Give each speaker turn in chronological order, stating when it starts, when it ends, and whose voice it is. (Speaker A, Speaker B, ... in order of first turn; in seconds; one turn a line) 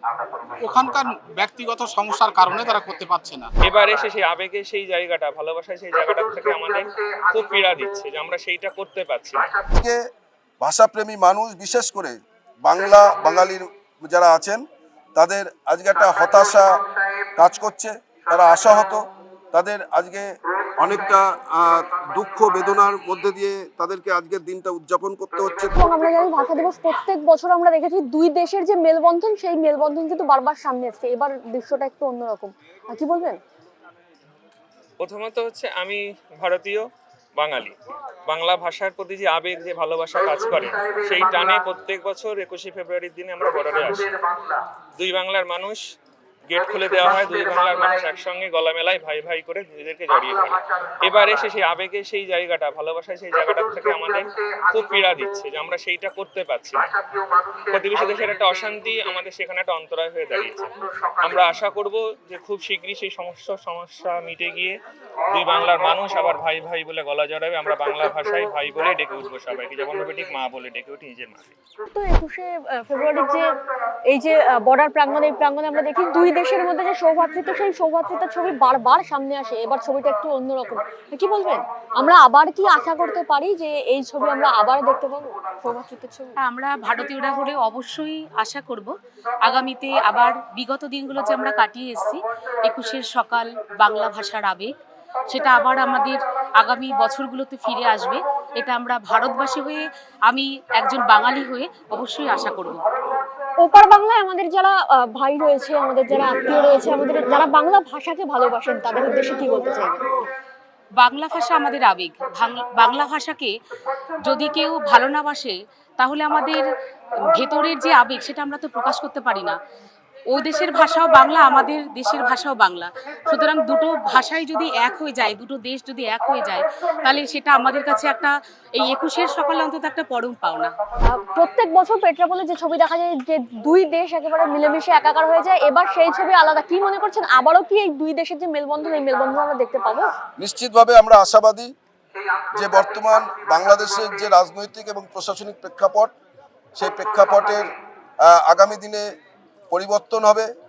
Speaker A: 0.6-3.5
Speaker B: 3.6-9.5
Speaker C: 9.7-10.0
Speaker C: 10.6-14.6
Speaker C: 15.2-16.7
Speaker C: 17.4-20.3
Speaker C: 20.8-25.8
Speaker D: 25.7-33.4
Speaker B: 35.0-37.8
Speaker B: 38.3-44.1
Speaker B: 45.0-45.8
Speaker B: 46.5-56.9
Speaker B: 57.5-64.8
Speaker B: 65.3-71.5
Speaker D: 71.9-73.5
Speaker D: 74.1-86.3
Speaker E: 86.4-88.9
Speaker E: 89.4-94.7
Speaker E: 95.3-102.8
Speaker D: 103.6-110.2
Speaker E: 111.0-113.5
Speaker E: 114.2-116.6
Speaker E: 117.3-119.6
Speaker E: 120.3-130.7
Speaker D: 131.1-140.1
Speaker C: 140.4-141.7
Speaker C: 142.5-146.1
Speaker C: 146.8-147.7
Speaker C: 148.2-149.0
Speaker C: 149.7-150.5